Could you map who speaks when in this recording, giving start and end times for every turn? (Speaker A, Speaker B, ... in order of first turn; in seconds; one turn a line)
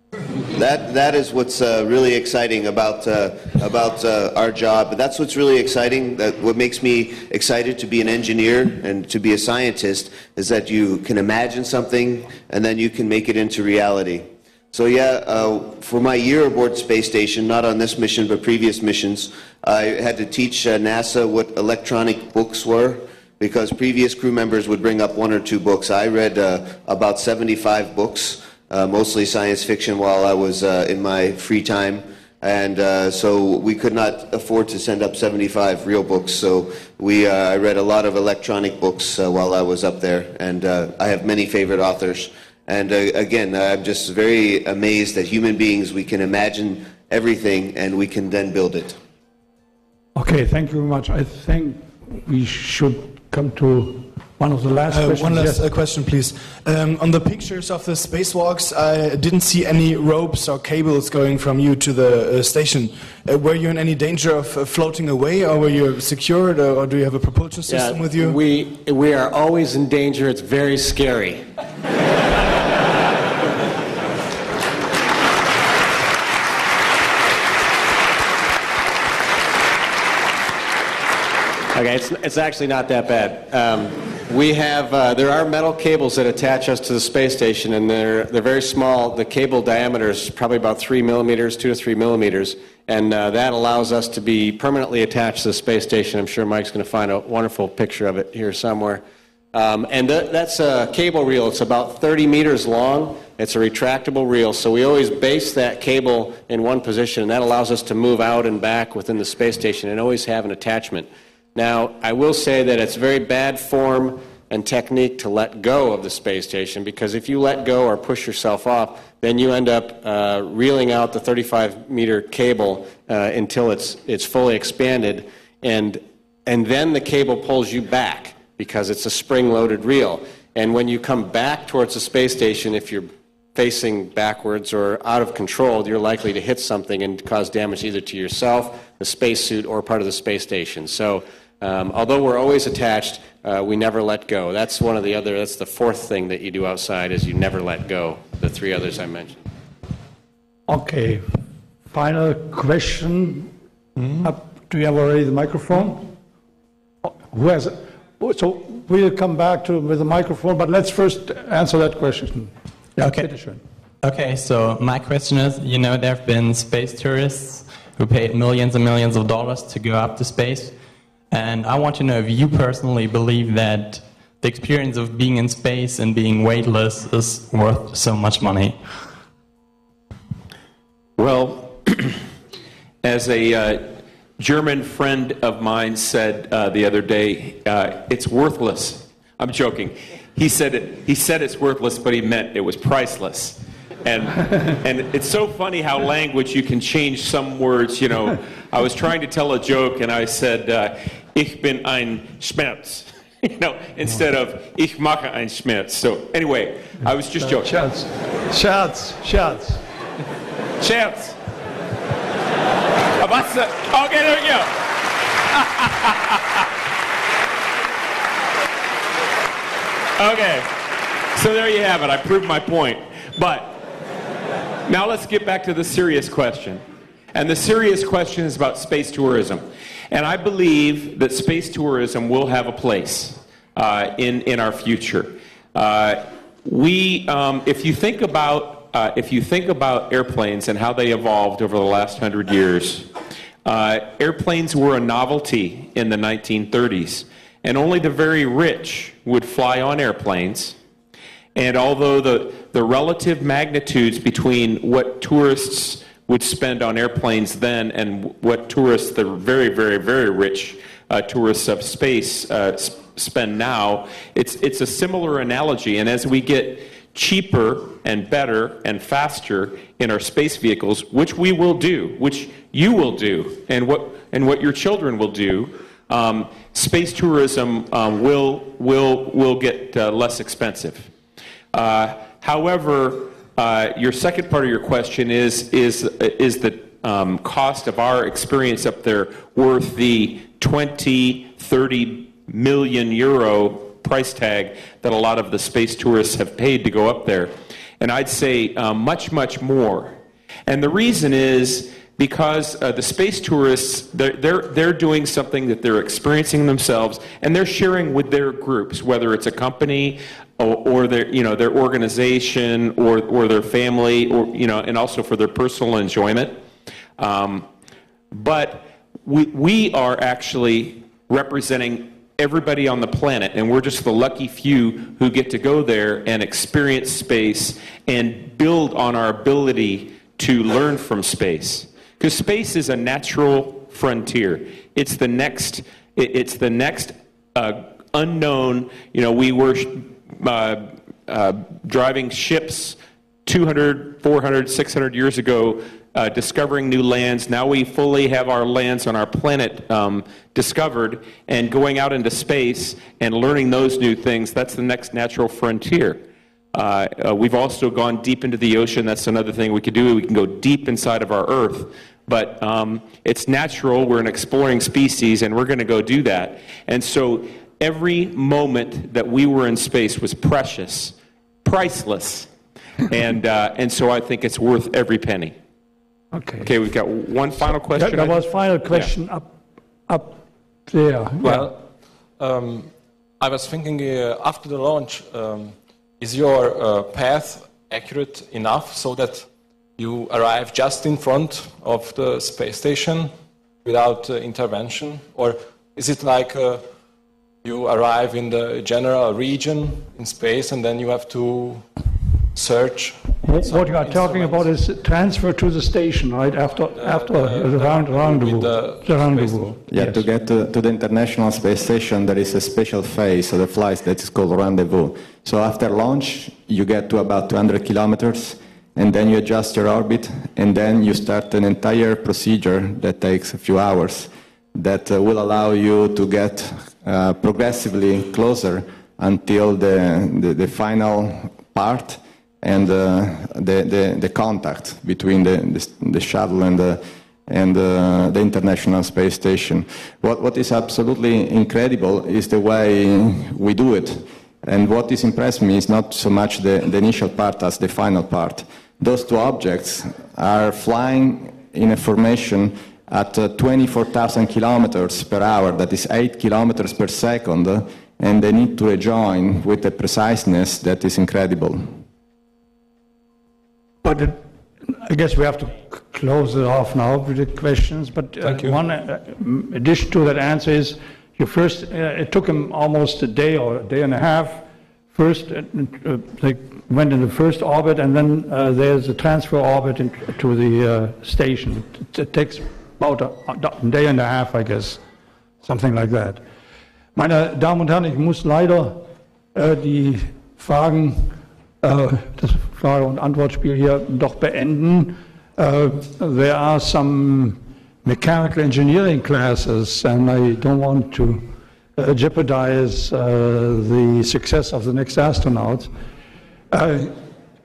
Speaker A: 0.5-49.0
Speaker B: 50.1-55.7
Speaker C: 54.9-68.4
Speaker D: 67.7-71.4
Speaker D: 81.7-149.4
Speaker B: 150.7-151.4
Speaker B: 151.9-153.5
Speaker B: 154.2-156.1
Speaker B: 157.1-163.6
Speaker E: 163.0-163.3
Speaker E: 164.0-170.7
Speaker E: 171.3-178.8
Speaker F: 181.2-182.2
Speaker F: 183.0-207.7
Speaker B: 207.4-209.8
Speaker F: 210.8-211.4
Speaker F: 213.2-216.7
Speaker F: 220.2-223.8
Speaker F: 224.9-226.8
Speaker F: 227.3-243.1
Speaker F: 243.7-250.8
Speaker F: 251.6-281.1
Speaker F: 281.7-316.6
Speaker F: 317.2-317.7
Speaker F: 318.3-372.5
Speaker F: 373.1-375.6
Speaker B: 376.3-376.7
Speaker F: 376.6-379.1
Speaker B: 377.9-379.5
Speaker B: 380.1-381.8
Speaker G: 382.4-393.3
Speaker G: 393.8-396.9
Speaker G: 397.6-401.9
Speaker G: 402.5-404.8
Speaker B: 403.4-410.2
Speaker G: 407.0-409.8
Speaker H: 409.9-462.0
Speaker B: 464.0-485.0
Speaker G: 468.4-468.8
Speaker B: 485.6-486.4
Speaker B: 487.2-505.9
Speaker B: 506.7-507.2